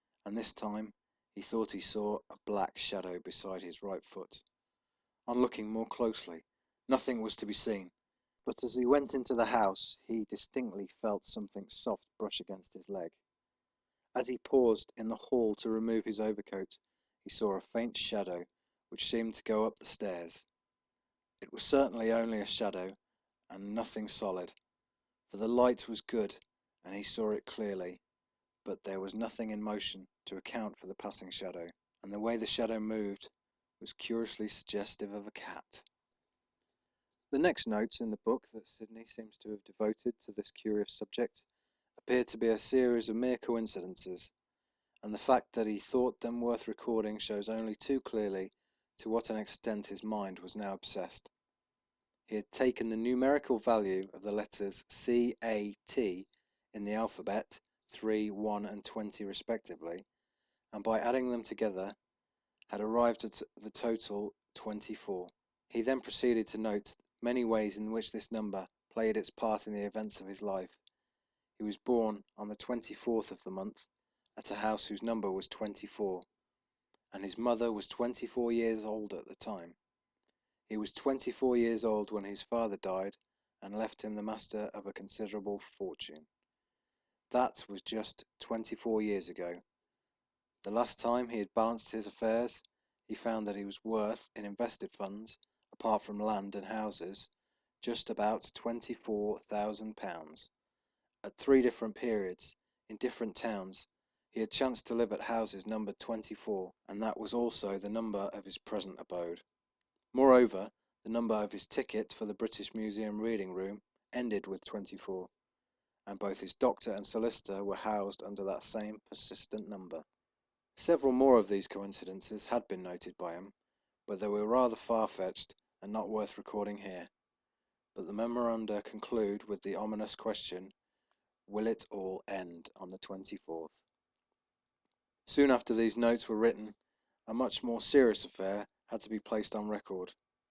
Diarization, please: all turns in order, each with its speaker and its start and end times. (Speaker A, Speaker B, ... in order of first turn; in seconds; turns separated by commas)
Speaker A: 0.2-4.4, Speaker A: 5.3-7.9, Speaker A: 8.5-13.2, Speaker A: 14.2-20.5, Speaker A: 21.4-23.0, Speaker A: 23.5-24.6, Speaker A: 25.3-28.0, Speaker A: 28.6-35.9, Speaker A: 37.3-41.5, Speaker A: 42.0-44.3, Speaker A: 45.0-51.3, Speaker A: 52.3-60.0, Speaker A: 60.7-62.0, Speaker A: 62.7-70.8, Speaker A: 71.6-76.3, Speaker A: 77.1-79.8, Speaker A: 80.7-86.3, Speaker A: 87.3-89.6, Speaker A: 90.6-97.3, Speaker A: 97.8-100.5, Speaker A: 101.2-109.4, Speaker A: 110.1-115.3, Speaker A: 116.1-120.0, Speaker A: 120.8-123.5, Speaker A: 124.1-127.1, Speaker A: 128.0-130.7, Speaker A: 131.5-133.8, Speaker A: 135.3-136.8, Speaker A: 137.3-140.2